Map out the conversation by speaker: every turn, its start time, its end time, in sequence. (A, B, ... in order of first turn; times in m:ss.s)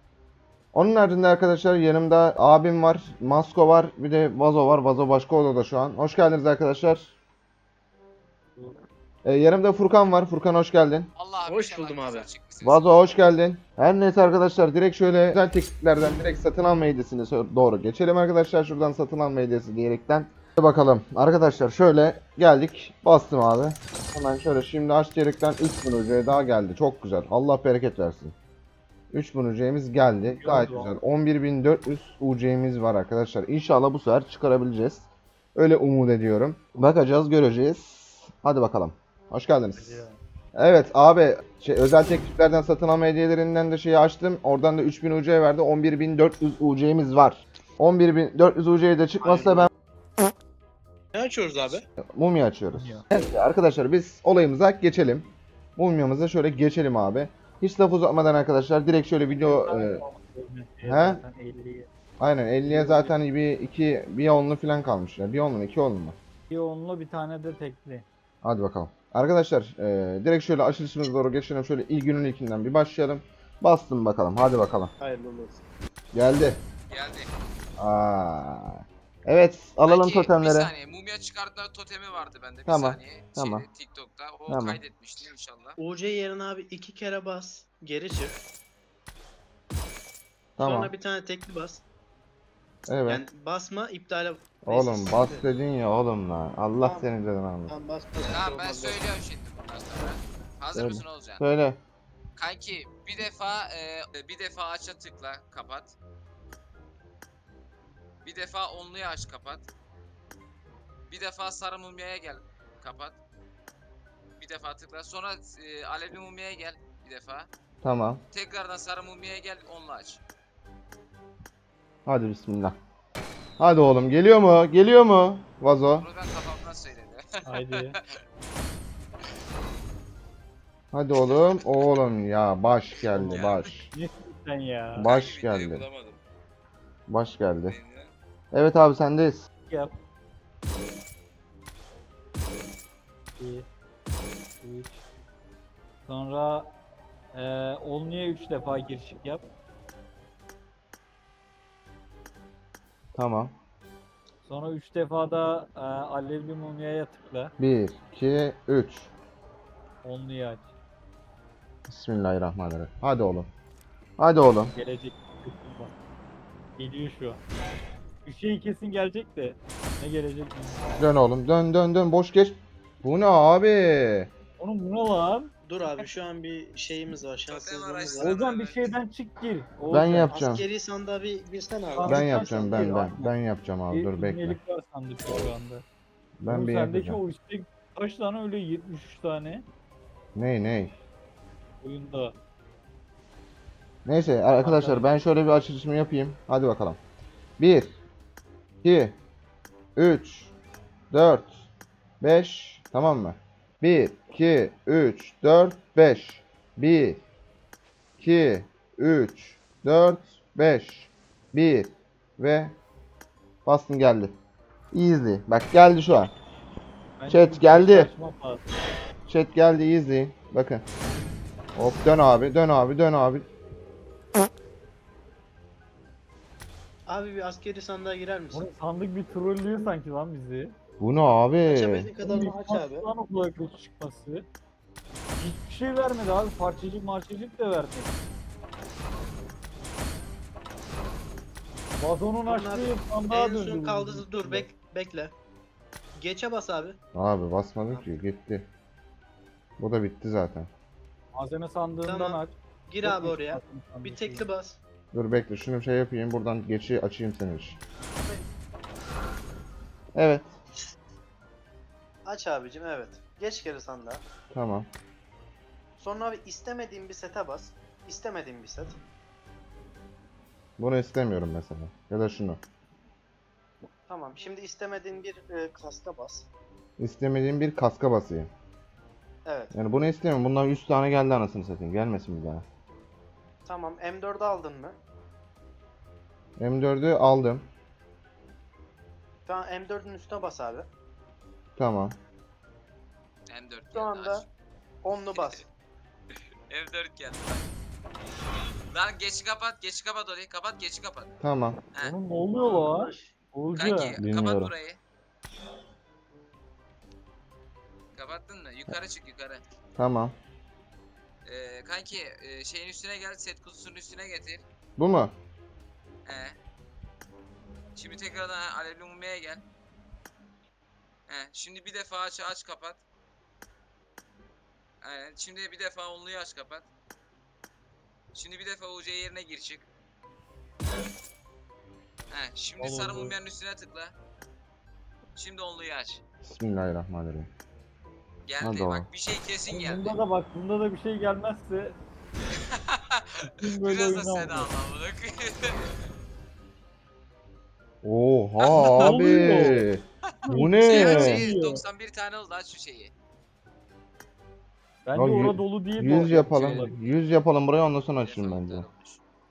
0:00.7-0:07.1 A
0:09.2-0:11.1 A
0:11.2-0:12.9 B
0:11.4-0:12.3 C
0:12.6-0:28.3 A
0:29.1-0:40.0 A
0:30.3-0:30.9 D
0:39.8-0:40.2 D
0:40.5-0:49.7 A
0:49.2-0:49.7 C
0:51.1-0:51.8 C
0:52.0-1:00.0 A
0:52.7-0:53.0 D
0:59.3-1:01.9 D
1:00.8-1:01.2 A
1:02.2-1:06.2 A
1:02.6-1:03.1 D
1:06.5-1:08.0 D
1:08.4-1:14.9 A
1:15.0-1:15.6 C
1:16.1-1:16.6 A
1:16.9-1:17.3 B
1:17.8-1:20.7 A
1:19.8-1:25.8 B
1:22.6-1:23.6 A
1:24.5-1:24.8 A
1:25.8-1:28.4 C
1:30.6-1:30.9 A
1:30.6-1:31.8 C
1:32.9-1:33.2 A
1:33.1-1:35.4 C
1:34.6-1:37.7 A
1:36.8-1:37.1 C
1:37.7-1:39.0 C
1:38.2-1:41.4 B
1:40.7-1:41.8 A
1:42.4-1:45.9 B
1:48.2-1:49.7 B
1:51.1-1:53.2 B
1:54.4-1:57.5 B
1:57.8-1:58.2 A
1:58.3-2:00.2 B
2:02.0-2:02.8 A
2:03.6-2:06.0 A
2:06.0-2:08.0 B
2:07.4-2:08.0 D
2:10.9-2:13.9 A
2:11.3-2:11.9 B
2:13.1-2:15.1 D
2:13.1-2:13.7 B
2:14.9-2:15.8 A
2:15.1-2:16.2 B
2:17.1-2:17.8 A
2:17.7-2:18.1 B
2:18.5-2:19.4 A
2:23.4-2:23.6 D
2:24.6-2:25.0 D
2:26.1-2:26.7 D
2:27.3-2:29.4 D
2:33.1-2:33.6 A
2:34.4-2:37.5 D
2:37.6-2:39.1 A
2:40.0-2:40.7 D
2:41.9-2:43.5 A
2:44.2-2:44.7 A
2:44.7-2:45.9 D
2:46.8-2:47.4 D
2:48.2-2:51.0 D
2:51.0-2:54.3 A
2:54.6-2:55.5 D
2:55.6-2:58.3 C
2:57.5-2:59.0 B
2:58.2-3:00.4 D
2:59.9-3:00.6 A
3:00.3-3:03.1 C
3:01.9-3:03.3 D
3:02.0-3:04.6 A
3:03.9-3:05.8 D
3:06.4-3:07.2 A
3:06.4-3:09.6 D
3:10.3-3:10.9 A
3:11.8-3:12.3 D
3:14.0-3:17.0 A
3:14.6-3:15.1 D
3:17.6-3:18.0 A
3:18.8-3:19.2 A
3:20.0-3:20.5 A
3:21.1-3:21.6 A
3:22.2-3:27.2 A
3:28.2-3:32.7 A
3:33.6-3:34.3 A
3:34.9-3:36.3 A
3:37.2-3:38.6 D
3:37.3-3:38.1 A
3:39.3-3:40.8 A
3:41.8-3:43.4 A
3:47.1-3:48.7 C
3:48.5-3:50.7 D
3:51.0-3:52.1 A
3:51.7-3:53.1 C
3:52.2-3:54.4 D
3:55.4-3:58.1 D
4:02.0-4:04.7 D
4:02.4-4:05.3 C
4:06.2-4:07.0 C
4:07.1-4:08.7 A
4:07.9-4:08.2 C
4:09.8-4:10.7 A
4:11.3-4:14.4 D
4:12.0-4:14.8 C
4:15.1-4:17.8 A
4:20.2-4:20.5 A
4:22.2-4:24.2 C
4:24.5-4:24.9 A
4:26.0-4:29.0 C
4:30.8-4:32.6 A
4:34.1-4:36.5 C
4:37.0-4:38.5 A
4:39.4-4:39.7 C
4:39.7-4:42.6 A
4:43.6-4:45.0 C
4:46.6-4:47.7 A
4:49.4-4:50.9 C
4:51.8-4:52.2 A
4:53.5-4:54.5 B
4:53.9-4:54.4 C
4:55.0-4:55.6 C
4:55.3-4:55.6 B
4:56.7-4:57.7 B
4:58.9-5:01.3 B
5:01.4-5:01.8 A
5:02.0-5:04.2 D
5:02.5-5:03.3 C
5:03.7-5:05.0 B
5:04.2-5:04.7 A
5:08.1-5:09.6 B
5:10.0-5:10.3 A
5:11.4-5:14.6 B
5:15.0-5:15.3 A
5:16.2-5:16.6 B
5:17.9-5:19.6 B
5:21.3-5:23.0 B
5:25.0-5:26.8 B
5:28.3-5:29.8 B
5:32.3-5:34.1 B
5:32.8-5:33.3 D
5:35.4-5:36.2 B
5:36.4-5:37.5 A
5:38.4-5:40.2 B
5:38.6-5:39.0 A
5:39.7-5:42.0 D
5:42.5-5:46.1 B
5:43.4-5:44.7 D
5:48.0-5:51.4 A
5:48.6-5:49.1 B
5:48.7-5:49.9 D
5:50.5-5:51.8 D
5:50.5-5:53.1 B
5:55.0-5:57.0 D
5:55.1-5:58.8 A
5:58.2-5:59.2 B